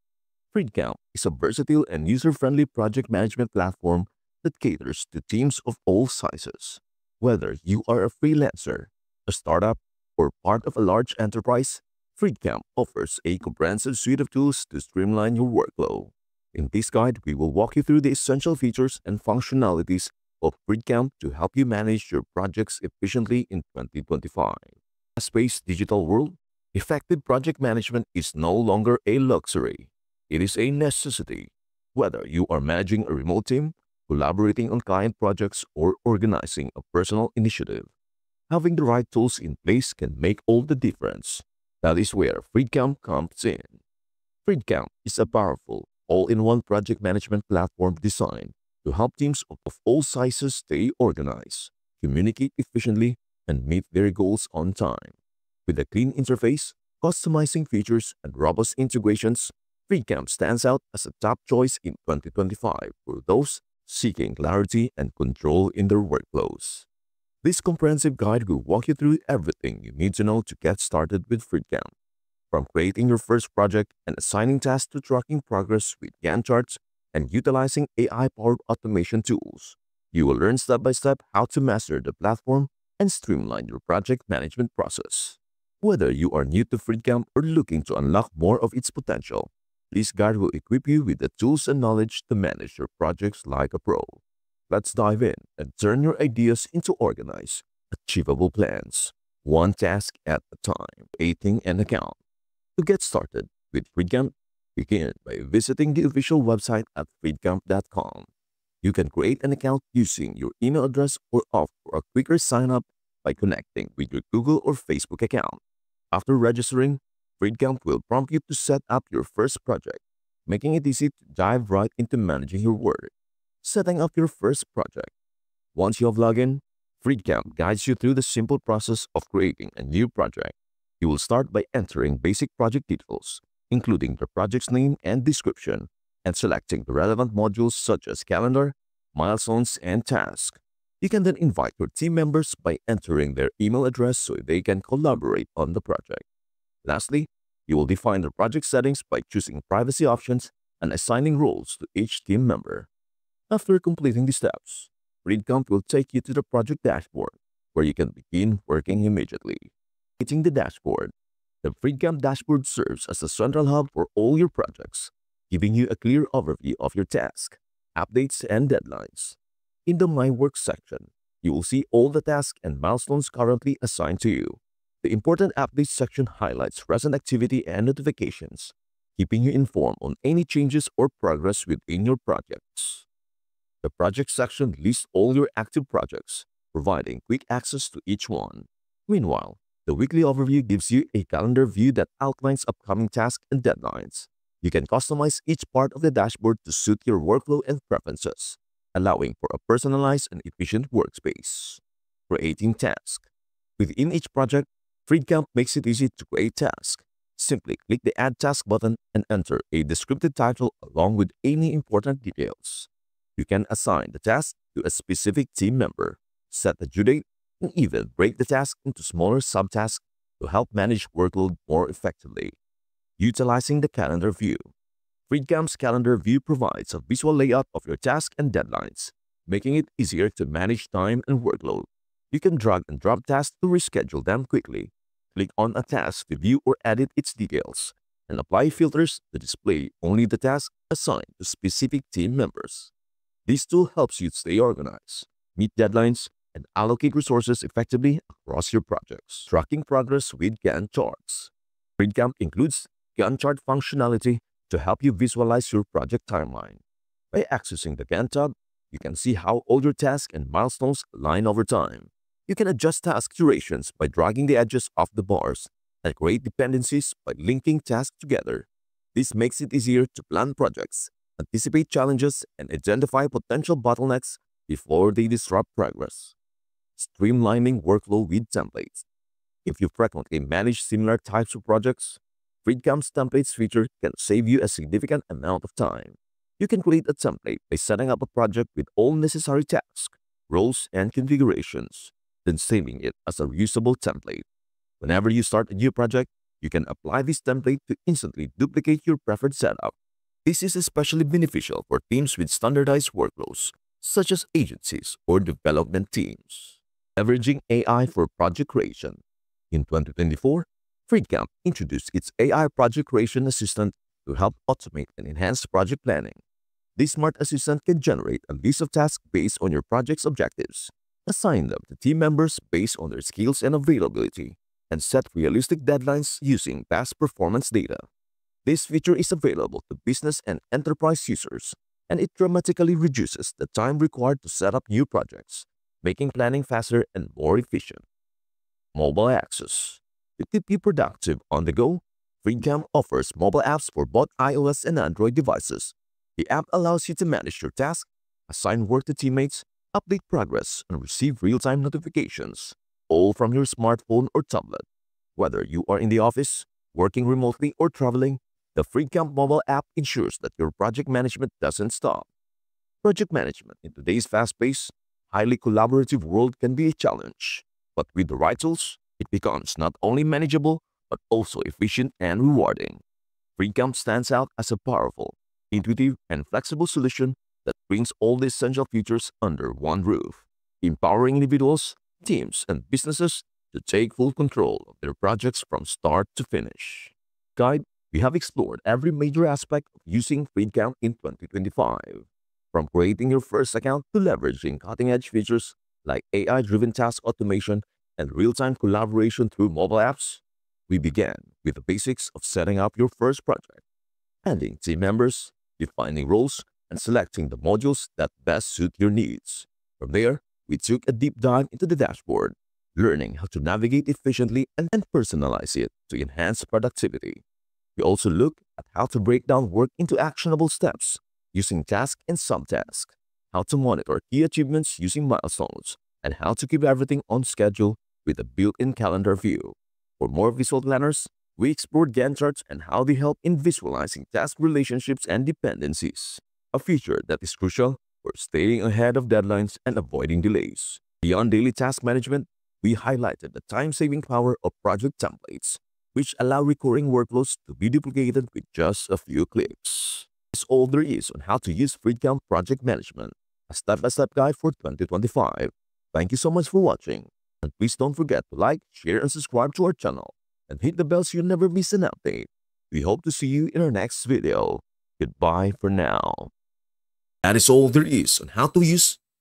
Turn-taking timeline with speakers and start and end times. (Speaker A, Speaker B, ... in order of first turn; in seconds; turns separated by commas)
Speaker A: 0.5-37.9, Speaker A: 38.5-43.8, Speaker A: 44.5-66.9, Speaker A: 67.4-71.9, Speaker A: 72.5-102.2, Speaker A: 102.8-108.3, Speaker A: 108.8-115.6, Speaker A: 116.1-123.1, Speaker A: 123.6-125.1, Speaker A: 125.8-146.2, Speaker A: 146.8-152.9, Speaker A: 153.5-161.1, Speaker A: 161.6-183.1, Speaker A: 183.8-222.6, Speaker A: 223.2-224.7, Speaker A: 225.3-242.9, Speaker A: 243.5-276.4, Speaker A: 277.0-279.1, Speaker A: 279.6-294.4, Speaker A: 295.0-316.4, Speaker A: 317.0-328.0, Speaker A: 328.6-338.0, Speaker A: 338.9-354.9, Speaker A: 355.4-362.3, Speaker A: 363.0-373.0, Speaker A: 373.6-403.8, Speaker A: 404.4-417.4, Speaker A: 418.0-466.5, Speaker A: 467.4-469.2